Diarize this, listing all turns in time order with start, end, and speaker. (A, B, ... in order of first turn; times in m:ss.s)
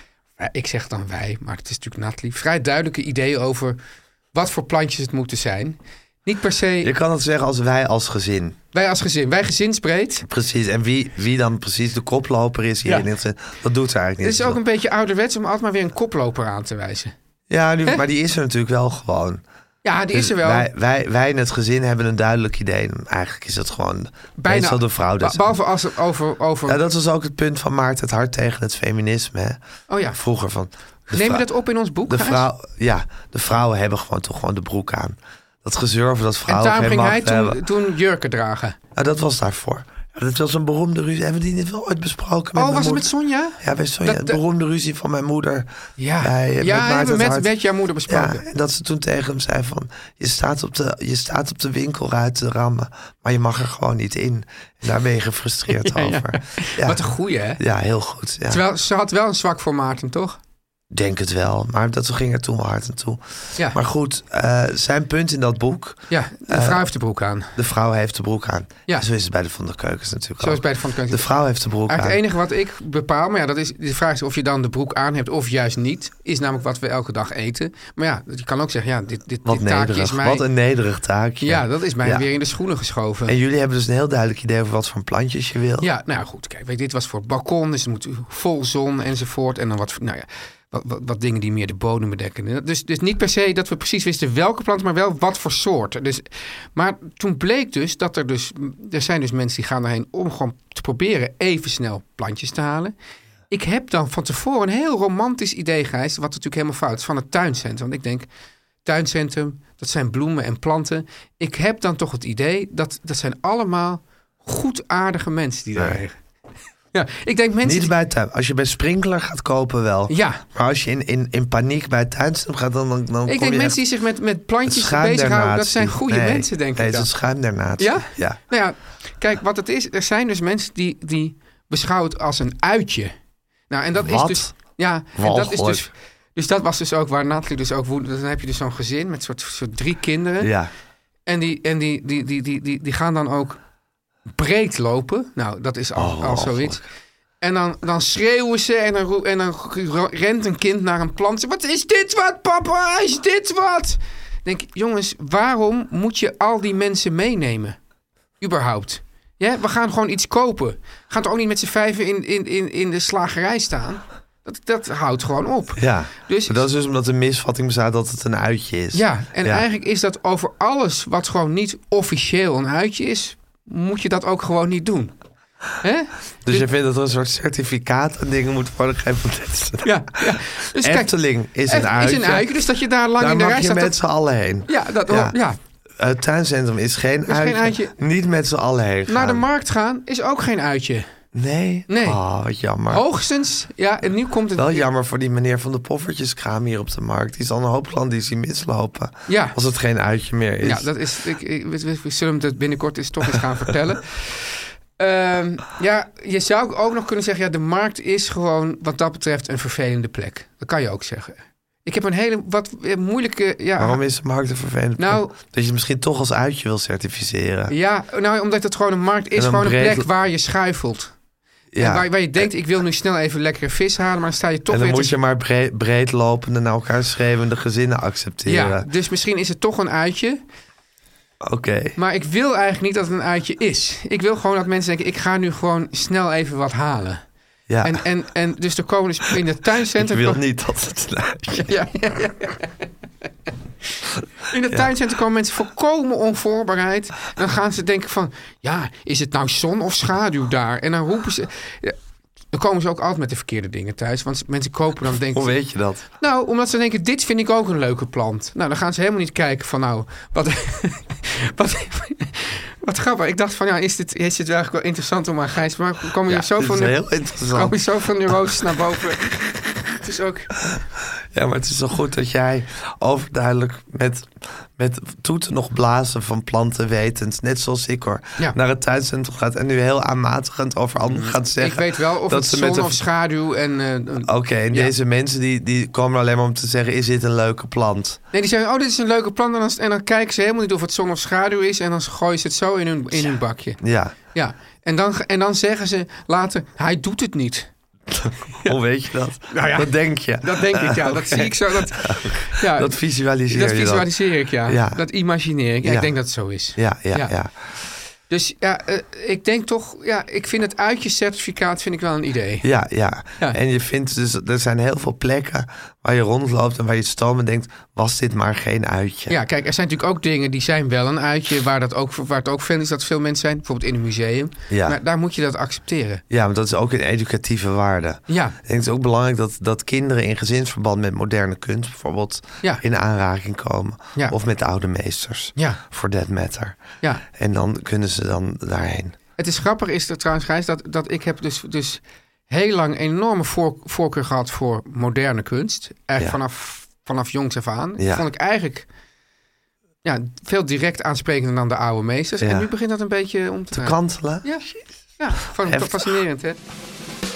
0:00.4-0:03.8 A
0:04.3-0:06.9 A
0:06.8-0:08.6 B
0:08.7-0:10.3 A
0:10.3-0:14.6 B
0:14.2-0:17.1 A
0:17.5-0:19.4 B
0:19.8-0:20.7 A
0:20.1-0:25.6 B
0:24.4-0:26.8 A
0:26.7-0:29.6 B
0:29.9-0:30.2 A
0:30.1-0:31.5 B
0:31.1-0:32.5 A
0:32.1-0:37.6 B
0:36.5-0:38.8 A
0:39.0-0:45.7 B
0:42.6-0:44.4 A
0:46.0-0:48.4 A
0:46.2-0:47.5 B
0:48.1-0:57.0 B
0:55.7-0:57.6 A
0:57.6-0:58.6 B
0:58.5-1:00.4 A
1:00.9-1:06.8 B
1:06.1-1:07.6 A
1:07.6-1:12.2 B
1:10.4-1:11.3 A
1:11.9-1:20.4 A
1:19.4-1:22.3 B
1:21.4-1:23.3 A
1:23.3-1:25.9 B
1:25.8-1:43.0 A
1:43.5-1:48.3 A
1:48.8-1:56.2 A
1:55.8-1:56.0 B
1:56.9-1:57.9 A
1:57.6-2:03.8 B
2:00.1-2:00.4 A
2:03.3-2:07.1 A
2:04.6-2:08.4 B
2:07.8-2:13.1 A
2:13.7-2:20.5 A
2:14.0-2:14.6 B
2:15.1-2:15.9 B
2:20.4-2:20.7 B
2:21.3-2:23.6 A
2:24.3-2:26.8 A
2:26.0-2:26.8 B
2:27.4-2:37.8 A
2:38.4-2:46.6 A
2:45.8-2:49.7 B
2:48.9-2:55.1 A
2:55.8-2:56.7 A
2:56.4-3:02.6 B
2:59.8-3:01.1 A
3:01.7-3:04.0 A
3:03.2-3:05.4 B
3:04.7-3:05.6 A
3:06.0-3:09.4 B
3:07.3-3:08.0 A
3:09.1-3:11.1 A
3:11.3-3:13.0 B
3:11.9-3:12.2 A
3:12.9-3:14.9 A
3:14.6-3:20.9 B
3:19.3-3:19.6 A
3:20.6-3:34.0 A
3:33.8-3:37.7 B
3:35.0-3:35.4 A
3:37.7-3:41.1 A
3:39.4-3:40.1 B
3:41.7-3:42.5 B
3:41.8-3:45.1 A
3:44.7-3:48.9 B
3:48.5-3:50.4 A
3:51.4-3:52.0 B
3:52.0-3:57.2 A
3:57.7-3:58.0 B
3:57.8-4:00.4 A
4:00.0-4:01.7 B
4:01.5-4:02.7 A
4:04.5-4:12.0 A
4:12.5-4:15.5 A
4:15.3-4:16.1 B
4:16.2-4:30.5 A
4:26.3-4:28.5 B
4:30.7-4:43.0 B
4:41.0-4:44.9 A
4:44.2-4:48.2 B
4:48.3-4:53.8 A
4:53.1-4:54.2 B
4:54.3-4:57.7 A
4:58.1-5:04.1 B
4:59.5-5:02.9 A
5:03.5-5:07.3 A
5:04.6-5:05.0 B
5:05.8-5:06.1 B
5:06.8-5:07.5 B
5:08.3-5:12.7 A
5:12.6-5:19.4 B
5:19.3-5:26.2 A
5:24.7-5:25.0 B
5:26.3-5:39.2 B
5:28.3-5:28.6 A
5:39.4-5:48.9 A
5:48.0-5:48.3 B
5:50.0-5:54.7 A
5:52.4-5:52.7 B
5:53.7-5:54.8 B
5:55.2-5:56.6 A
5:55.6-5:56.1 B